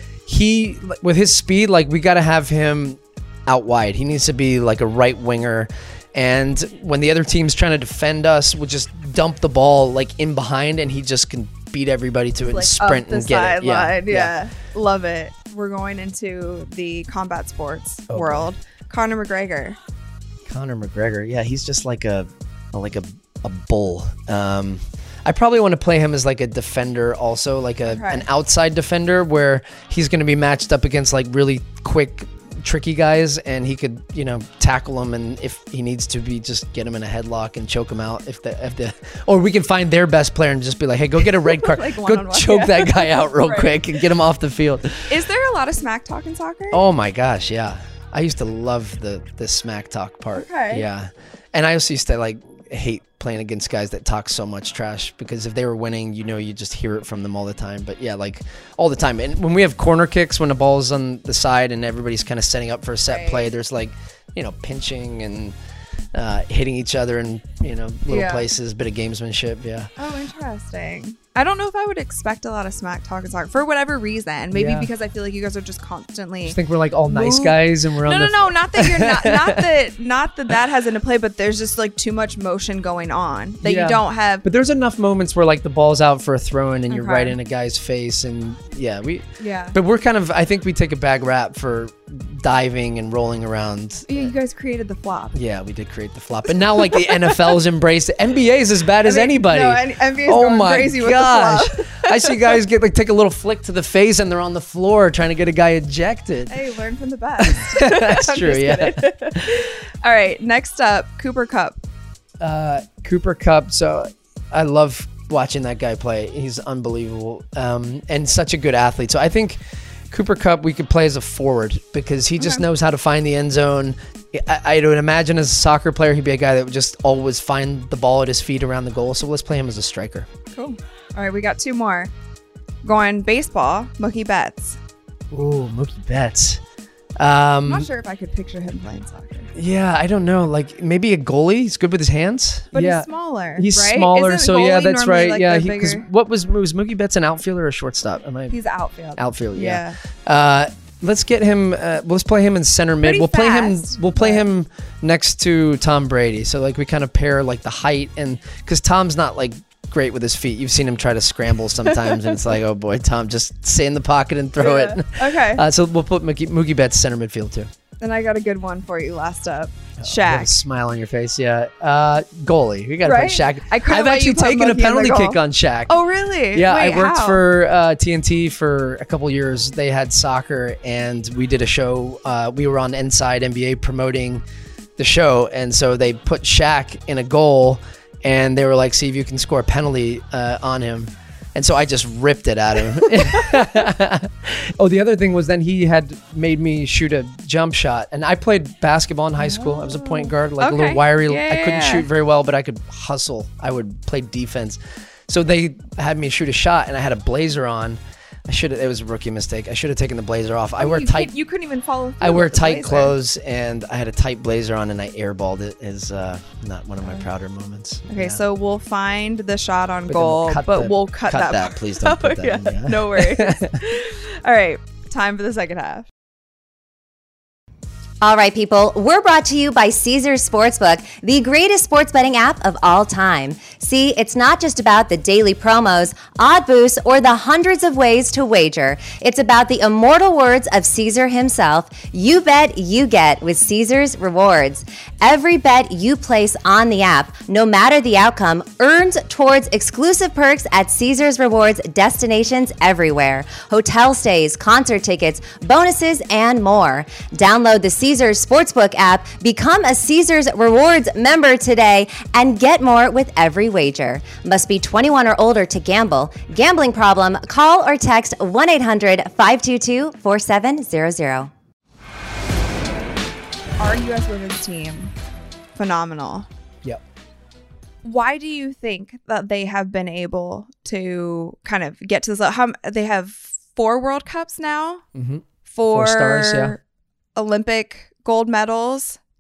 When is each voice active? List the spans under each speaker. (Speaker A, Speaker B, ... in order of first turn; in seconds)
Speaker A: 0.3-14.3, 18.1-18.5, 20.5-45.1, 46.7-65.5, 66.1-69.9, 74.5-74.9, 76.5-79.6, 83.6-94.3, 95.3-106.5, 107.4-109.6, 112.4-119.6, 120.1-130.3, 135.3-136.6, 137.2-137.9, 139.5-148.6, 149.2-167.7, 170.0-175.9, 176.5-184.4, 185.0-211.3, 212.2-218.4, 220.1-223.8, 285.1-286.8
Speaker B: 12.4-19.8, 27.9-28.3, 41.2-43.8, 45.1-46.8, 50.3-50.9, 63.1-63.5, 68.1-68.5, 70.0-76.6, 77.1-84.5, 86.9-87.4, 89.4-89.8, 94.1-95.4, 96.7-97.6, 99.0-102.6, 106.5-111.8, 122.4-122.7, 130.5-132.1, 132.8-134.8, 137.7-139.5, 142.7-146.1, 148.5-150.0, 153.0-154.5, 161.8-162.4, 164.6-165.7, 168.0-170.5, 173.0-177.4, 193.1-193.6, 199.4-202.1, 210.8-213.2, 217.0-217.3, 218.1-226.1, 273.8-275.1, 275.8-276.5, 278.0-285.0, 285.7-286.8, 287.4-289.2
Speaker C: 228.2-271.5